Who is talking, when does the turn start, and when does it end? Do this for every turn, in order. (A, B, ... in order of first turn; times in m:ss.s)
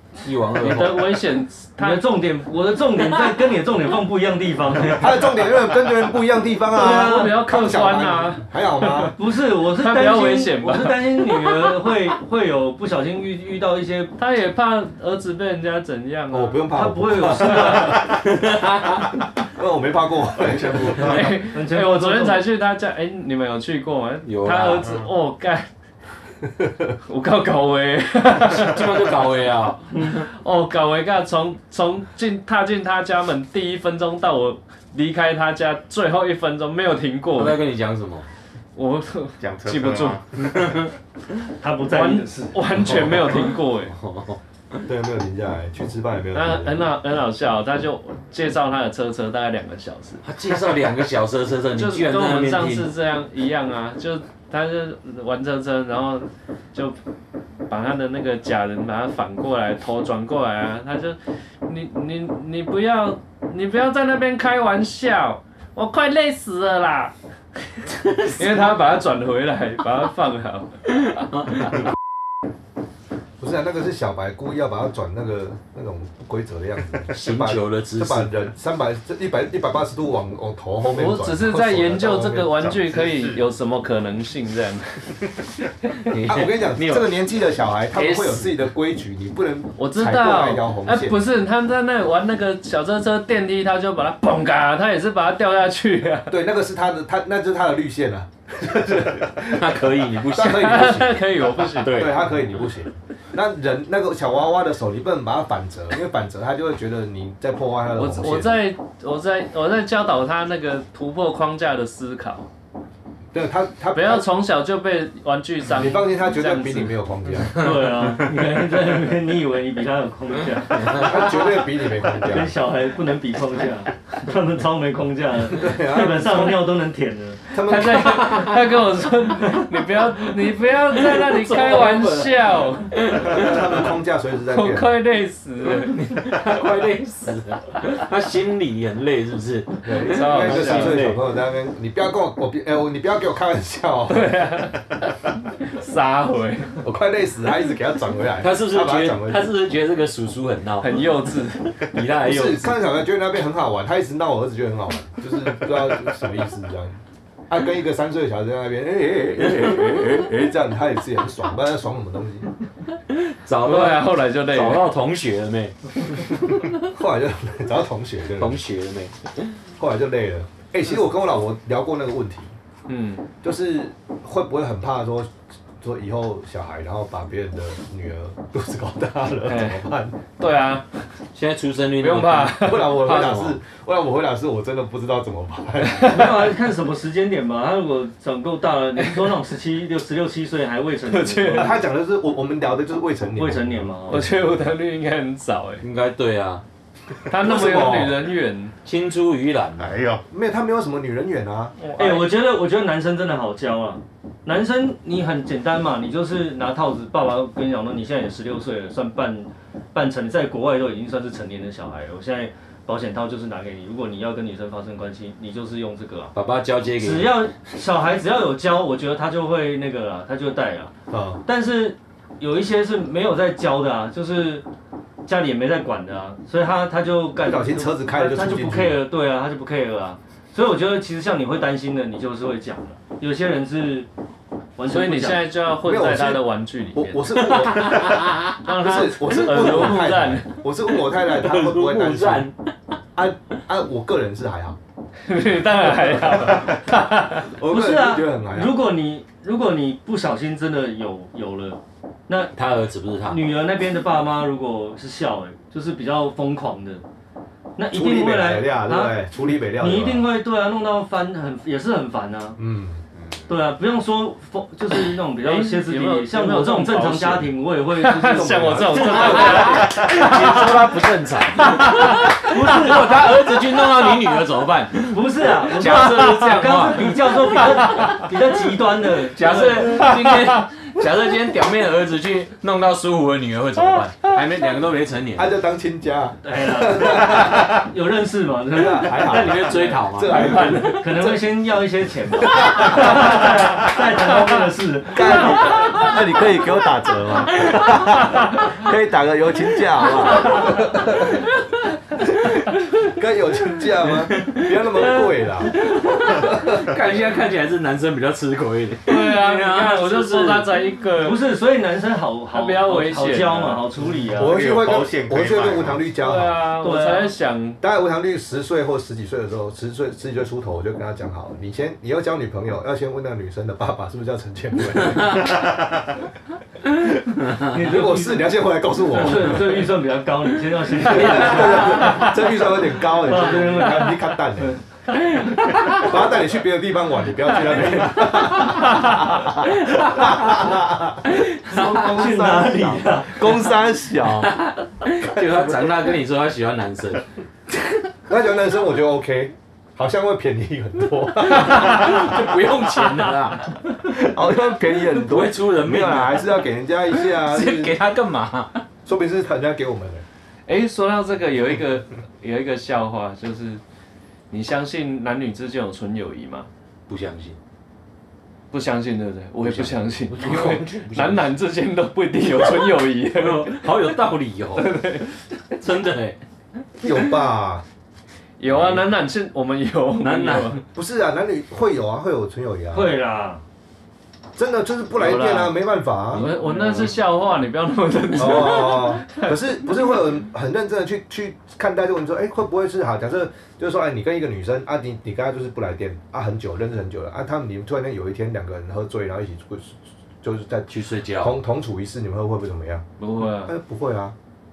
0:00.2-0:01.2 A
0:00.6-0:02.0 B
0:00.8-0:01.0 C
0:01.8-0:05.3 C
0:05.0-0:09.1 D
0:06.7-0:07.3 C
0:06.8-0:09.1 B
0:09.1-0:14.1 C
0:09.7-0:11.4 B
0:14.2-0:16.7 B
0:16.3-0:18.3 D
0:16.7-0:18.1 C
0:17.4-0:17.9 B
0:18.3-0:19.1 A
0:19.1-0:21.3 D
0:20.9-0:25.7 B
0:21.3-0:22.4 C
0:24.2-0:24.9 A
0:27.0-0:29.0 B
0:28.5-0:30.2 A
0:29.9-0:30.2 C
0:30.1-0:37.6 B
0:37.4-0:38.3 A
0:38.8-0:40.2 B
0:39.4-0:40.8 E
0:40.4-0:40.9 A
0:41.6-0:42.6 C
0:41.9-0:43.9 B
0:42.9-0:43.4 A
0:43.9-0:44.8 A
0:44.9-0:46.9 D
0:46.3-0:50.6 B
0:50.2-0:52.9 A
0:51.8-0:57.0 B
0:57.7-1:07.1 B
1:08.0-1:08.5 A
1:08.3-1:10.8 B
1:11.4-1:11.8 A
1:13.4-1:23.4 D
1:17.1-1:18.5 A
1:20.9-1:25.2 B
1:26.1-1:27.1 A
1:26.2-1:31.2 D
1:28.0-1:28.4 A
1:29.8-1:36.4 B
1:36.3-1:48.6 D
1:39.4-1:41.1 A
1:40.4-1:42.0 B
1:41.8-1:42.3 A
1:48.0-1:52.5 B
1:53.3-1:54.3 D
1:53.9-1:57.0 B
1:55.7-1:57.5 D
1:57.5-2:01.2 C
2:00.9-2:02.5 D
2:02.1-2:07.4 C
2:05.5-2:06.5 D
2:07.5-2:08.3 D
2:07.5-2:13.0 B
2:08.0-2:08.7 A
2:10.9-2:12.4 A
2:12.9-2:13.6 A
2:13.1-2:14.9 D
2:14.5-2:16.0 B
2:15.8-2:21.2 A
2:19.8-2:24.4 D
2:20.0-2:21.1 B
2:24.1-2:25.0 B
2:25.6-2:26.8 B
2:26.8-2:29.5 D
2:28.4-2:31.1 A
2:30.8-2:31.9 B
2:31.8-2:32.7 A
2:32.2-2:42.5 D
2:39.4-2:40.3 A
2:43.1-2:46.7 A
2:43.6-2:44.8 B
2:46.9-2:48.6 D
2:48.4-2:49.3 A
2:49.8-2:52.5 D
2:52.9-2:53.2 B
2:53.4-3:00.2 D
2:59.4-2:59.8 B
3:00.4-3:01.0 B
3:01.4-3:03.6 A
3:02.0-3:03.1 B
3:02.6-3:06.5 D
3:06.0-3:11.8 C
3:11.1-3:11.8 B
3:11.4-3:14.4 D
3:13.4-3:14.3 C
3:14.1-3:15.8 B
3:15.8-3:16.6 A
3:17.3-3:18.8 B
3:17.4-3:18.2 D
3:18.8-3:20.0 A
3:19.8-3:20.2 E
3:20.3-3:21.8 D
3:21.8-3:22.3 B
3:22.0-3:36.3 C
3:36.4-3:37.5 A
3:37.0-3:40.9 C
3:41.1-3:41.4 D
3:41.5-3:44.6 C
3:45.2-3:54.1 C
3:47.4-3:49.0 D
3:54.8-3:55.5 C
3:54.9-3:57.9 B
3:55.8-4:02.5 D
3:57.5-3:58.6 A
3:58.6-4:00.5 B
3:59.5-4:00.0 A
4:01.0-4:02.6 A
4:03.1-4:04.8 D
4:05.3-4:07.5 B
4:06.5-4:08.8 D
4:07.7-4:12.5 C
4:12.5-4:13.4 A
4:13.2-4:17.0 C
4:17.8-4:22.6 C
4:17.9-4:20.3 D
4:22.6-4:23.0 D
4:23.1-4:23.5 E
4:23.5-4:29.4 C
4:25.4-4:30.9 B
4:28.2-4:29.8 D
4:28.9-4:38.2 A
4:29.9-4:30.3 E
4:31.5-4:33.0 B
4:32.4-4:33.1 C
4:35.1-4:40.0 C
4:35.9-4:36.6 B
4:37.9-4:38.3 B
4:39.1-4:45.5 A
4:39.8-4:40.7 B
4:45.4-4:47.9 D
4:46.4-4:49.3 C
4:48.7-4:51.4 D
4:49.2-4:51.3 A
4:50.3-4:51.0 B
4:50.7-4:56.1 C
4:52.4-4:53.9 D
4:55.1-5:01.5 D
5:00.0-5:00.7 A
5:02.2-5:05.8 D
5:04.0-5:10.8 A
5:06.3-5:06.8 D
5:09.0-5:11.4 B
5:11.2-5:14.8 C
5:12.5-5:13.8 B
5:14.4-5:16.0 E
5:14.4-5:16.6 D
5:16.2-5:17.8 B
5:16.8-5:17.3 C
5:17.8-5:26.2 D
5:26.8-5:29.9 D
5:27.6-5:28.5 C
5:29.1-5:34.8 C
5:31.0-5:34.8 D
5:31.0-5:32.1 A
5:31.8-5:32.3 B
5:35.5-5:44.5 D
5:35.6-5:36.0 A
5:38.8-5:39.4 B
5:40.0-5:40.5 A
5:41.3-5:42.5 A
5:41.6-5:43.5 C
5:44.2-5:47.2 A
5:45.3-5:46.1 D
5:48.3-5:52.2 D
5:51.5-5:53.8 B
5:51.5-5:53.7 A
5:53.9-5:58.0 D
5:55.1-5:56.6 A
5:57.2-5:58.8 A
5:59.0-6:00.2 D
6:00.7-6:03.8 B
6:04.5-6:06.7 B
6:07.1-6:07.6 A
6:08.7-6:13.9 B
6:09.6-6:11.5 A
6:13.3-6:15.0 A
6:14.8-6:15.3 B
6:15.8-6:16.4 A
6:17.0-6:17.8 D
6:18.6-6:20.8 B
6:18.7-6:19.1 A
6:20.2-6:20.8 A
6:20.9-6:23.2 D
6:22.9-6:23.6 C
6:24.5-6:26.5 D
6:25.2-6:25.8 B
6:26.3-6:29.9 B
6:26.4-6:27.0 A
6:28.4-6:44.4 D
6:40.9-6:41.6 A
6:43.2-6:43.7 B